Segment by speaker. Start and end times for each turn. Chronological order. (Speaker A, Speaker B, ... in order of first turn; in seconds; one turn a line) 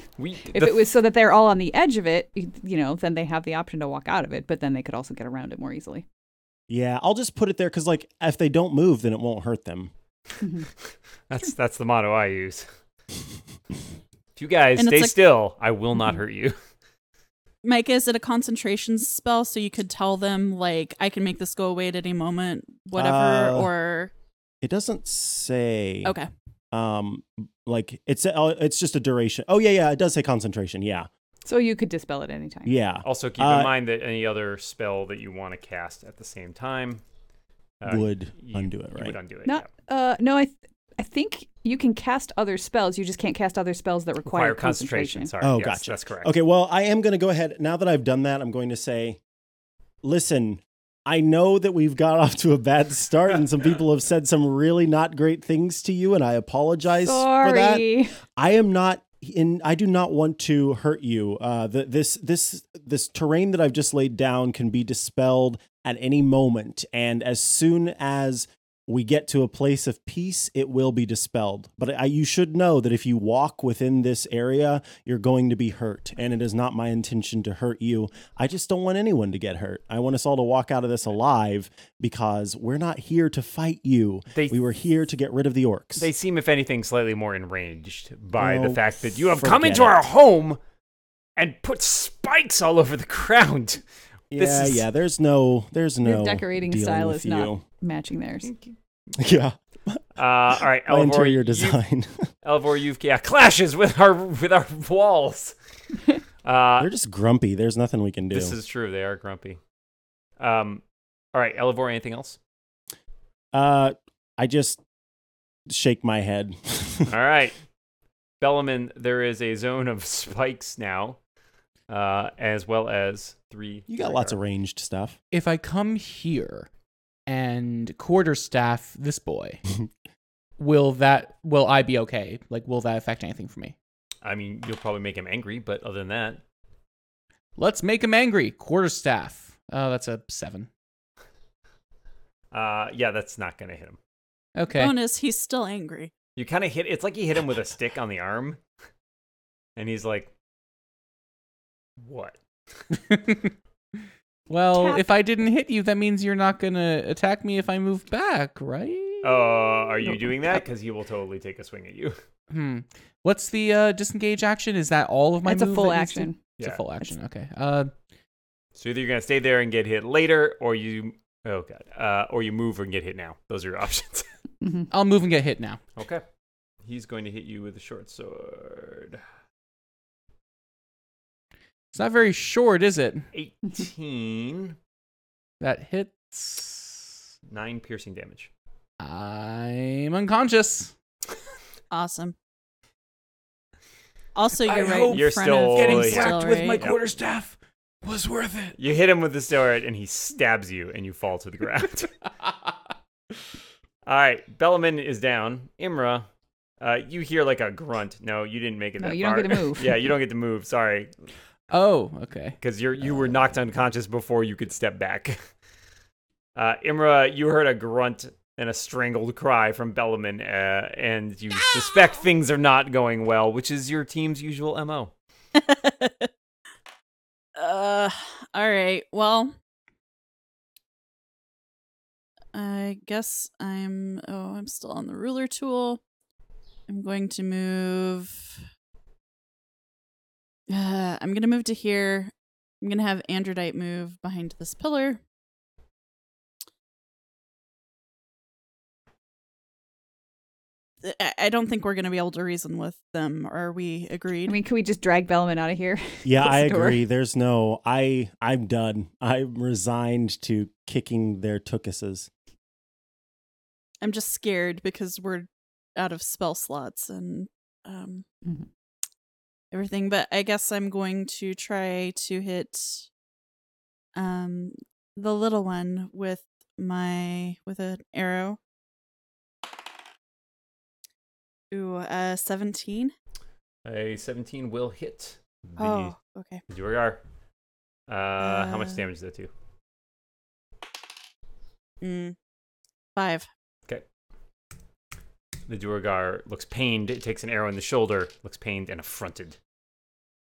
Speaker A: 0.2-0.9
Speaker B: 0.5-6.0
Speaker C: 6.7-9.9
Speaker A: 11.3-12.7
Speaker A: 14.4-16.6
Speaker D: 14.8-15.1
Speaker D: 17.6-24.1
Speaker C: 22.9-23.7
Speaker C: 24.6-26.2
Speaker C: 26.7-31.1
Speaker B: 31.4-32.8
Speaker C: 32.7-33.7
Speaker A: 33.0-37.0
Speaker A: 37.8-39.7
Speaker C: 37.9-39.2
Speaker B: 39.5-45.3
Speaker A: 44.3-46.3
Speaker C: 45.4-49.2
Speaker C: 50.0-86.1
Speaker B: 56.9-58.2
Speaker A: 84.3-84.6
Speaker A: 86.0-90.6
Speaker C: 88.3-90.0
Speaker A: 91.4-93.8
Speaker C: 94.3-97.6
Speaker A: 94.3-94.9
Speaker B: 96.0-98.5
Speaker A: 98.4-98.7
Speaker C: 99.2-102.3
Speaker A: 100.2-101.8
Speaker A: 102.4-105.6
Speaker A: 106.4-106.9
Speaker C: 106.8-108.6
Speaker A: 108.3-109.6
Speaker A: 110.4-110.8
Speaker A: 111.3-112.4
Speaker C: 113.5-114.8
Speaker C: 115.7-117.1
Speaker A: 117.1-117.6
Speaker A: 118.4-121.2
Speaker A: 121.9-124.4
Speaker C: 123.9-125.2
Speaker E: 125.3-126.7
Speaker E: 127.3-129.6
Speaker E: 130.6-133.8
Speaker A: 134.2-136.4
Speaker E: 137.6-140.7
Speaker A: 142.5-144.0
Speaker E: 144.6-144.9
Speaker D: 144.7-146.1
Speaker A: 146.4-148.6
Speaker A: 149.8-150.3
Speaker A: 152.0-152.4
Speaker E: 153.1-153.5
Speaker E: 154.5-160.5
Speaker B: 154.7-155.0
Speaker A: 159.2-162.2
Speaker E: 162.5-167.9
Speaker B: 165.4-166.4
Speaker A: 168.8-174.3
Speaker E: 174.9-175.8
Speaker A: 176.0-176.2
Speaker A: 176.8-179.2
Speaker E: 181.9-183.3
Speaker A: 183.3-184.8
Speaker E: 185.6-187.0
Speaker A: 187.5-188.5
Speaker E: 189.0-190.9
Speaker D: 191.9-192.4
Speaker D: 194.3-196.9
Speaker E: 194.5-198.8
Speaker A: 195.1-197.0
Speaker A: 198.8-202.1
Speaker A: 204.1-206.3
Speaker A: 206.8-211.1
Speaker B: 209.0-209.9
Speaker E: 211.7-212.6
Speaker A: 212.6-215.4
Speaker A: 216.6-225.1
Speaker D: 225.6-226.3
Speaker D: 227.6-229.5
Speaker D: 232.5-236.0
Speaker D: 236.9-238.6
Speaker D: 240.7-245.2
Speaker D: 251.0-254.6
Speaker B: 254.5-257.0
Speaker C: 256.2-262.3
Speaker D: 264.0-268.2
Speaker D: 269.7-273.1
Speaker D: 274.1-278.6
Speaker D: 281.7-283.1
Speaker A: 283.9-286.1
Speaker D: 285.8-286.6
Speaker A: 286.7-287.2
Speaker A: 288.1-289.5
Speaker D: 288.4-289.0
Speaker D: 292.0-292.4
Speaker D: 293.1-293.5
Speaker A: 295.7-299.6